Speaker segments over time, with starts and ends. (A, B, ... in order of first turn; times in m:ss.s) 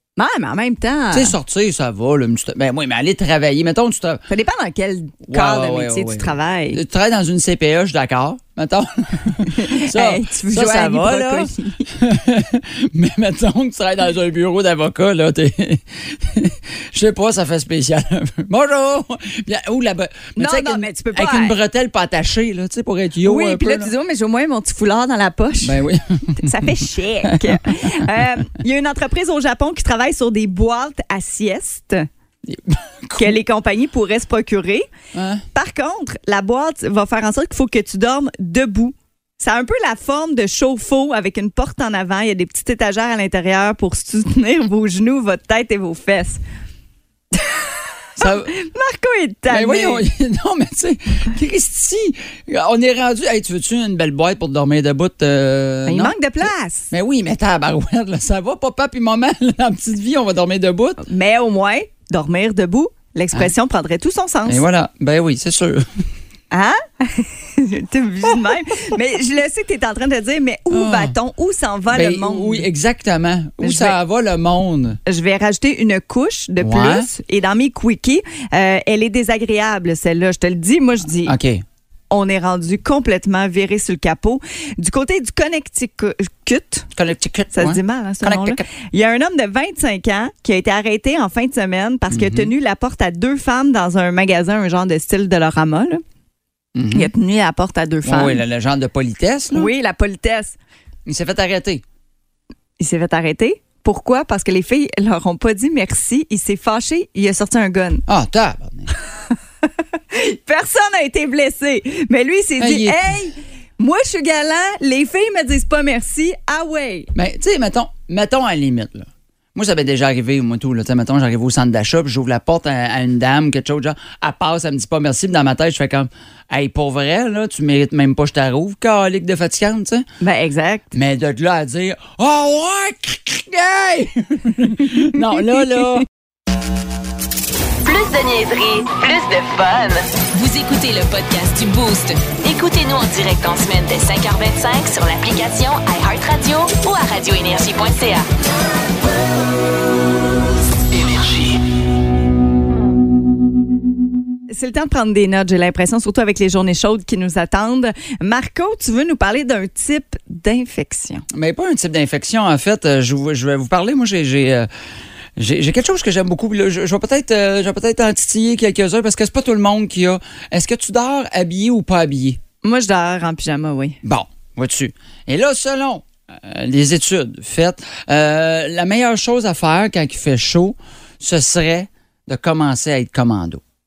0:00.2-0:01.4 A
0:01.1-0:04.2 B
0:04.3-0:06.8 A
0:05.3-0:23.9 B
0:09.5-0:11.9 A
0:20.4-0:21.6 A
0:23.2-0:25.8 A
0:25.6-0:26.7 B
0:26.4-0:32.1 A
0:27.2-0:28.0 B
0:32.5-0:33.4 B
0:33.2-0:34.9 A
0:35.1-0:35.4 B
0:35.5-0:46.4 A
0:47.3-0:50.0 A
0:48.2-0:48.5 B
0:49.5-0:56.2 B
0:55.9-0:56.9 A
0:56.9-1:01.0 B
1:01.0-1:04.6 A
1:04.5-1:05.9 B
1:06.5-1:12.7 A
1:10.7-1:11.2 B
1:11.9-1:15.0 B
1:13.6-1:14.0 A
1:15.1-1:21.4 A
1:16.6-1:17.1 B
1:21.2-1:21.6 B
1:22.1-1:26.9 A
1:27.0-1:28.6 B
1:27.5-1:36.0 A
1:32.1-1:32.5 B
1:36.8-1:37.1 B
1:36.9-1:38.4 A
1:38.0-1:39.7 B
1:39.5-1:40.6 A
1:41.1-1:41.8 B
1:42.8-1:48.0 A
1:48.1-1:48.9 B
1:50.1-1:57.1 A
1:52.6-1:53.1 B
1:57.2-2:10.0 B
2:10.2-2:10.9 A
2:10.9-2:16.1 B
2:17.8-2:28.3 C
2:31.0-2:31.4 C
2:34.5-2:41.3 A
2:41.3-2:44.7 B
2:45.4-2:52.4 B
2:52.6-2:54.0 A
2:54.0-3:03.6 B